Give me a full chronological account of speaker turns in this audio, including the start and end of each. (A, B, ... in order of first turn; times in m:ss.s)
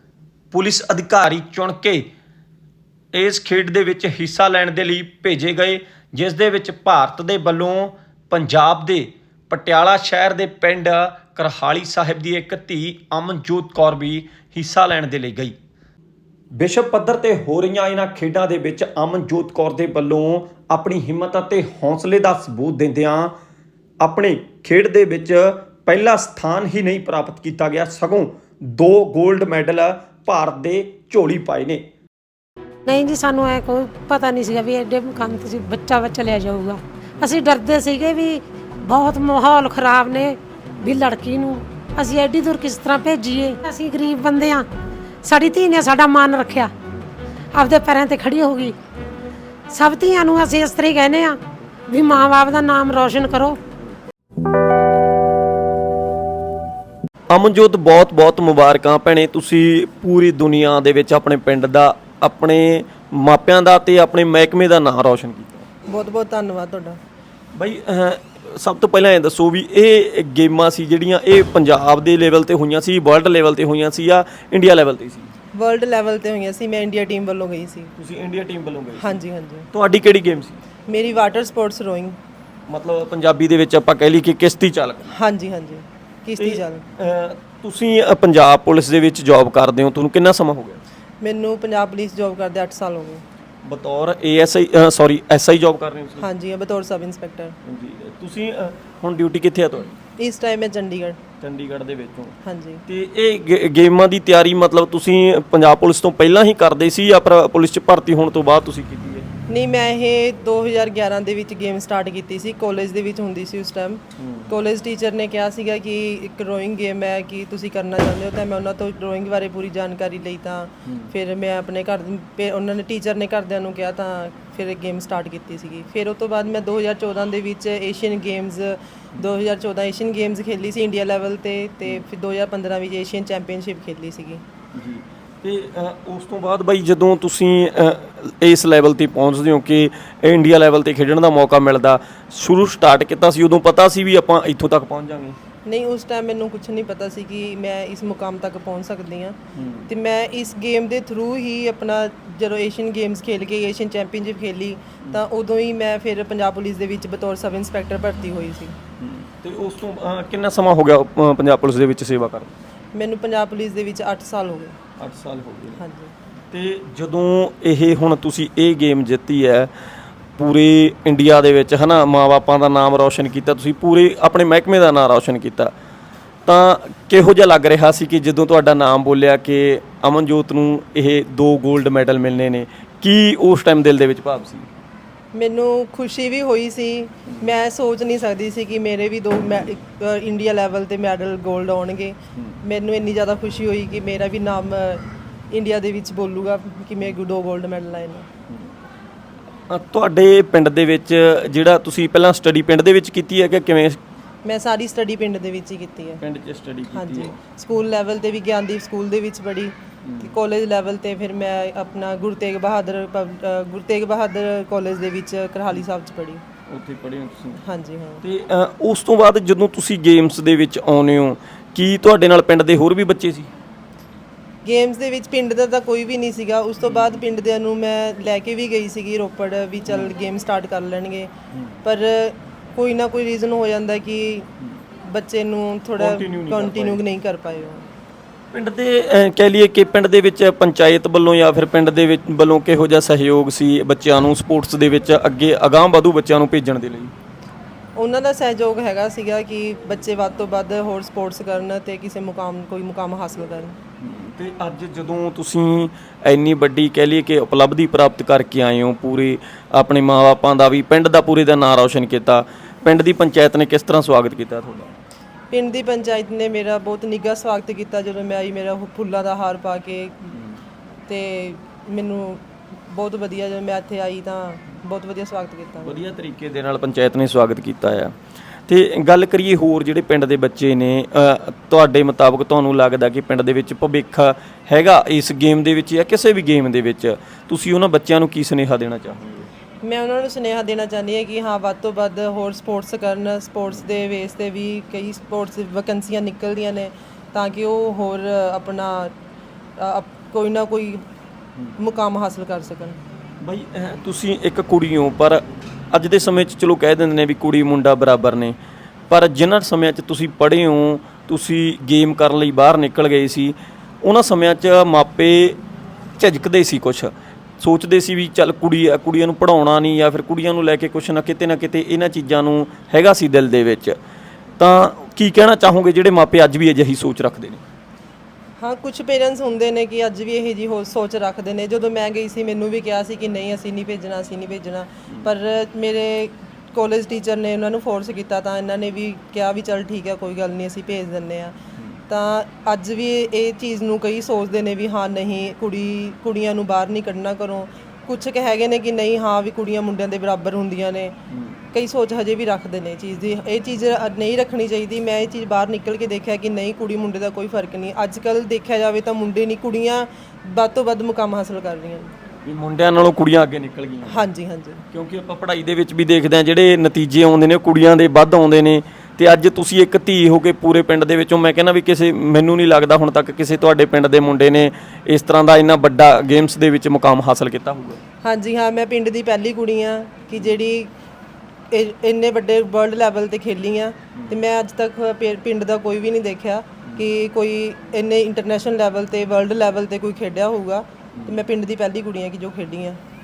0:00.5-0:02.1 A
0:03.1-0:15.6 A
0:16.5-0:23.3 A
0:24.0-0:31.8 A
0:32.9-0:44.6 B
0:45.2-0:46.7 B
0:47.5-0:48.8 B
0:49.7-0:53.6 B
0:57.3-1:05.7 A
1:05.9-1:07.0 C
1:07.5-1:15.3 A
1:15.5-1:17.9 C
1:18.0-1:19.2 A
1:19.0-1:19.7 C
1:19.7-1:20.6 A
1:20.9-1:22.2 C
1:22.7-1:25.1 A
1:25.1-1:26.8 C
1:26.4-1:30.8 A
1:31.2-1:33.2 C
1:33.6-1:36.2 A
1:36.2-1:37.6 C
1:37.6-1:40.0 A
1:40.2-1:41.2 C
1:41.4-1:49.3 A
1:42.4-1:42.8 C
1:49.5-2:14.4 C
1:54.2-1:54.5 A
2:00.8-2:01.1 A
2:14.7-2:25.4 A
2:25.6-2:29.4 C
2:29.5-2:29.9 A
2:29.9-2:38.7 C
2:39.0-2:42.5 A
2:42.9-2:44.7 C
2:45.0-2:45.8 A
2:45.8-2:46.1 C
2:46.5-2:49.7 A
2:50.4-2:55.7 A
2:56.4-3:04.7 A
3:05.3-3:18.3 C
3:19.7-3:24.0 A
3:24.4-3:26.2 C
3:26.2-3:27.4 A
3:26.9-3:36.4 C
3:30.0-3:30.3 A
3:36.7-3:37.6 A
3:37.6-3:38.2 C
3:38.2-3:43.5 A
3:44.6-3:51.3 C
3:46.8-3:47.2 A
3:51.5-3:51.8 A
3:51.8-3:54.5 C
3:55.1-3:57.8 C
3:56.0-3:57.0 A
3:58.5-4:07.1 A
4:08.0-4:13.8 C
4:14.0-4:24.9 A
4:25.5-4:30.3 C
4:30.3-4:30.6 A
4:31.1-4:35.9 C
4:35.8-4:38.1 A
4:38.7-4:49.5 A
4:49.8-4:59.1 C
4:59.8-5:01.0 C
5:01.8-5:03.0 C
5:03.4-5:08.6 A
5:09.1-5:15.6 A
5:16.2-5:24.0 A
5:24.6-5:27.6 A
5:28.6-5:41.5 C
5:42.1-5:51.1 C
5:51.3-5:51.6 A
5:51.7-6:02.1 C
6:02.4-6:04.3 A
6:04.1-6:04.8 C
6:04.9-6:18.0 A
6:18.2-6:20.9 C
6:21.7-6:33.0 C